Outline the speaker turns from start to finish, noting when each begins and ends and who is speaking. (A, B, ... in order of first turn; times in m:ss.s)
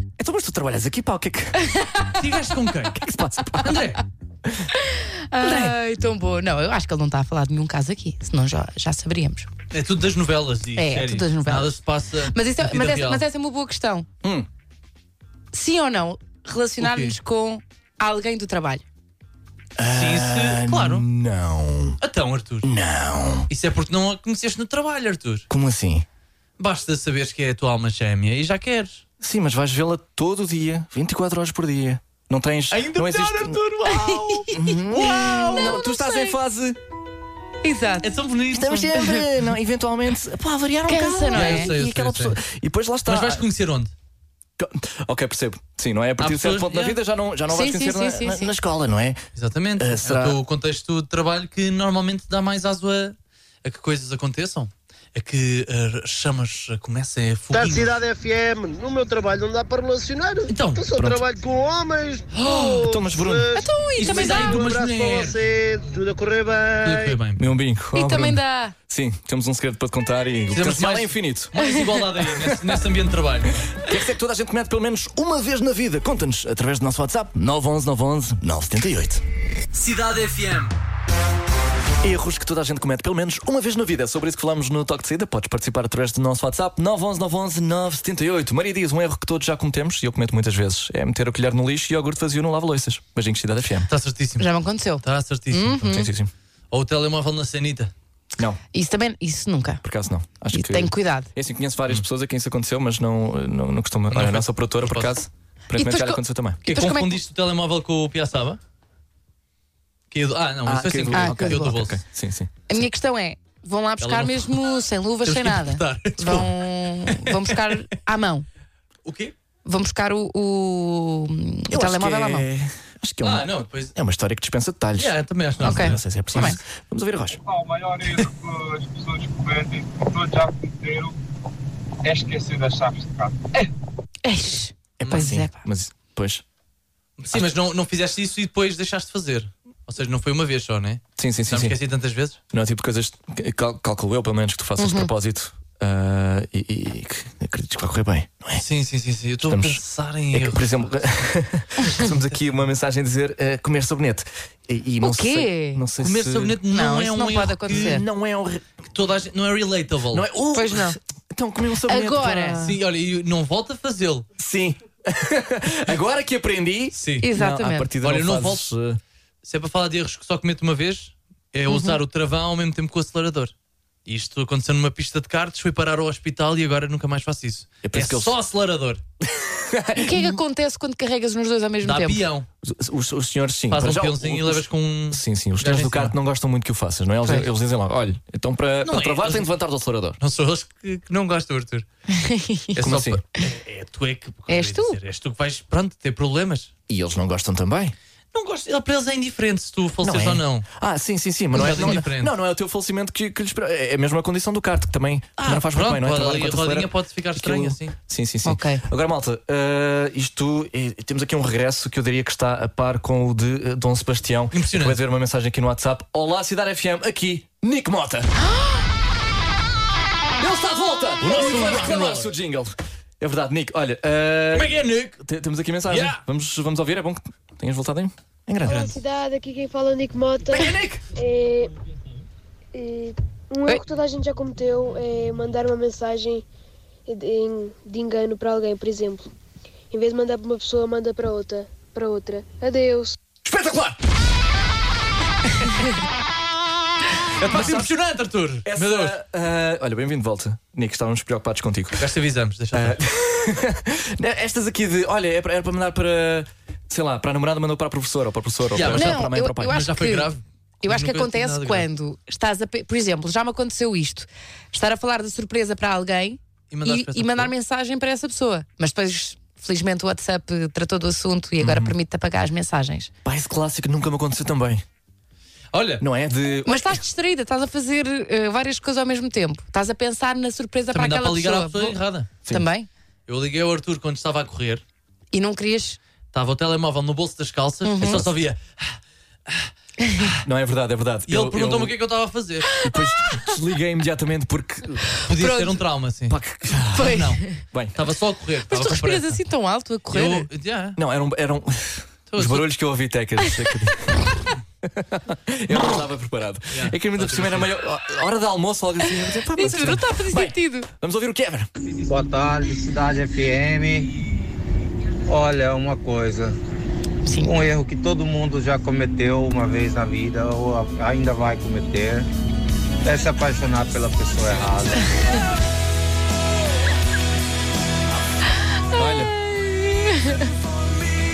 0:00.2-0:01.7 A
0:01.6-0:02.0 B
0:02.2-0:03.0 C
0:02.9-0:03.9 A
0:03.6-0:04.0 C
0:04.7-0:09.5 B
0:05.4-0:05.7 A
0:09.7-0:13.2 C
0:10.8-0:11.7 B
0:12.3-0:14.1 B
0:15.5-0:18.8 B
0:16.8-0:17.1 C
0:19.8-0:22.0 A
0:19.8-0:21.0 C
0:22.0-0:22.7 C
0:22.6-0:23.5 A
0:23.5-0:25.5 C
0:25.5-0:26.0 A
0:26.6-0:29.0 C
0:29.2-0:33.6 A
0:32.7-0:35.8 C
0:33.9-0:36.4 B
0:34.5-0:36.8 A
0:37.6-0:38.1 B
0:38.0-0:39.0 C
0:38.5-0:43.4 A
0:39.0-0:39.2 B
0:40.9-0:41.7 B
0:41.3-0:42.4 C
0:43.0-0:43.9 C
0:44.6-0:49.2 A
0:46.2-0:47.0 C
0:47.5-0:48.5 B
0:49.3-0:58.0 C
0:49.8-0:50.4 A
0:57.5-1:07.2 D
1:00.5-1:00.8 C
1:00.9-1:01.2 A
1:02.3-1:02.9 C
1:02.8-1:03.5 A
1:03.5-1:04.6 B
1:04.0-1:05.4 C
1:06.8-1:07.5 C
1:07.4-1:11.6 A
1:07.9-1:08.7 B
1:10.5-1:13.7 C
1:11.6-1:11.9 B
1:12.2-1:12.8 A
1:13.8-1:19.2 A
1:19.7-1:20.7 C
1:22.0-1:33.9 A
1:33.9-1:35.9 C
1:34.4-1:36.1 B
1:35.8-1:36.3 A
1:36.7-1:37.9 C
1:38.7-1:39.8 B
1:39.8-1:46.6 A
1:40.5-1:41.3 B
1:44.1-1:45.2 C
1:45.8-1:47.1 B
1:46.6-1:48.6 C
1:50.1-1:52.0 C
1:50.6-1:52.9 A
1:51.1-1:51.7 B
1:52.7-1:58.4 B
1:54.0-1:54.6 C
1:55.2-1:57.6 C
1:59.0-1:59.3 C
1:59.6-2:02.5 B
2:01.7-2:07.4 A
2:03.2-2:04.0 C
2:05.0-2:06.6 C
2:05.6-2:06.6 B
2:07.4-2:11.1 E
2:12.0-2:13.7 E
2:14.2-2:15.6 B
2:15.0-2:16.4 A
2:15.0-2:15.3 C
2:17.2-2:22.4 C
2:21.2-2:21.8 A
2:22.5-2:28.6 A
2:24.8-2:25.1 B
2:28.6-2:30.9 C
2:29.4-2:29.8 A
2:30.3-2:36.6 A
2:32.0-2:32.4 C
2:35.0-2:35.8 B
2:36.0-2:38.0 C
2:36.7-2:38.0 B
2:37.7-2:38.6 A
2:38.9-2:40.2 C
2:40.1-2:42.8 A
2:40.5-2:41.0 B
2:41.9-2:42.6 B
2:42.6-2:44.2 C
2:44.4-2:49.0 A
2:46.9-2:47.3 C
2:47.2-2:47.9 B
2:48.0-2:48.7 C
2:49.4-2:53.5 C
2:51.7-2:52.0 B
2:54.0-2:59.0 C
2:57.8-2:58.3 A
2:59.2-3:00.4 A
3:00.0-3:02.2 B
3:01.8-3:02.5 C
3:02.6-3:10.2 A
3:03.7-3:06.2 C
3:08.8-3:09.5 C
3:10.2-3:11.8 C
3:12.1-3:12.8 B
3:12.7-3:16.7 C
3:12.8-3:13.2 A
3:14.5-3:15.0 B
3:16.9-3:17.9 A
3:18.3-3:20.7 C
3:20.0-3:38.3 A
3:21.5-3:22.3 C
3:21.6-3:21.9 B
3:25.4-3:28.0 C
3:28.4-3:28.8 B
3:34.5-3:35.0 C
3:38.4-3:38.8 B
3:40.4-3:49.0 A
3:41.2-3:42.3 C
3:44.5-3:45.2 C
3:45.9-3:46.2 C
3:48.6-3:51.7 F
3:48.7-3:49.0 C
3:50.5-3:51.0 A
3:52.7-3:56.4 F
3:57.1-3:59.3 F
3:59.9-4:03.2 F
4:03.4-4:04.0 A
4:07.4-4:09.2 C
4:07.4-4:07.9 A
4:08.6-4:12.1 A
4:12.0-4:13.0 C
4:12.7-4:19.9 A
4:18.7-4:21.9 C
4:18.8-4:20.3 B
4:20.8-4:33.1 B
4:26.7-4:27.5 C
4:31.6-4:31.9 A
4:33.2-4:34.8 A
4:35.7-4:36.0 C
4:36.0-4:37.0 A
4:36.6-4:42.9 B
4:40.9-4:42.3 C
4:43.3-4:44.8 C
4:45.3-4:46.0 B
4:46.3-4:49.7 C
4:47.8-4:48.2 B
4:50.4-4:51.9 A
4:51.3-4:52.8 C
4:52.8-4:55.1 A
4:55.3-4:55.8 B
4:55.3-4:56.4 C
4:56.3-4:58.0 A
4:56.9-4:57.6 B
4:57.0-4:57.4 C
4:57.9-4:59.4 C
4:58.7-5:00.5 B
5:00.1-5:01.0 C
5:01.0-5:11.7 A
5:02.3-5:02.7 C
5:06.7-5:07.7 C
5:09.5-5:10.9 B
5:12.0-5:14.1 G
5:15.3-5:16.5 G
5:17.2-5:17.5 B
5:17.4-5:22.3 G
5:23.0-5:25.0 G
5:28.9-5:30.5 B
5:28.9-5:29.3 A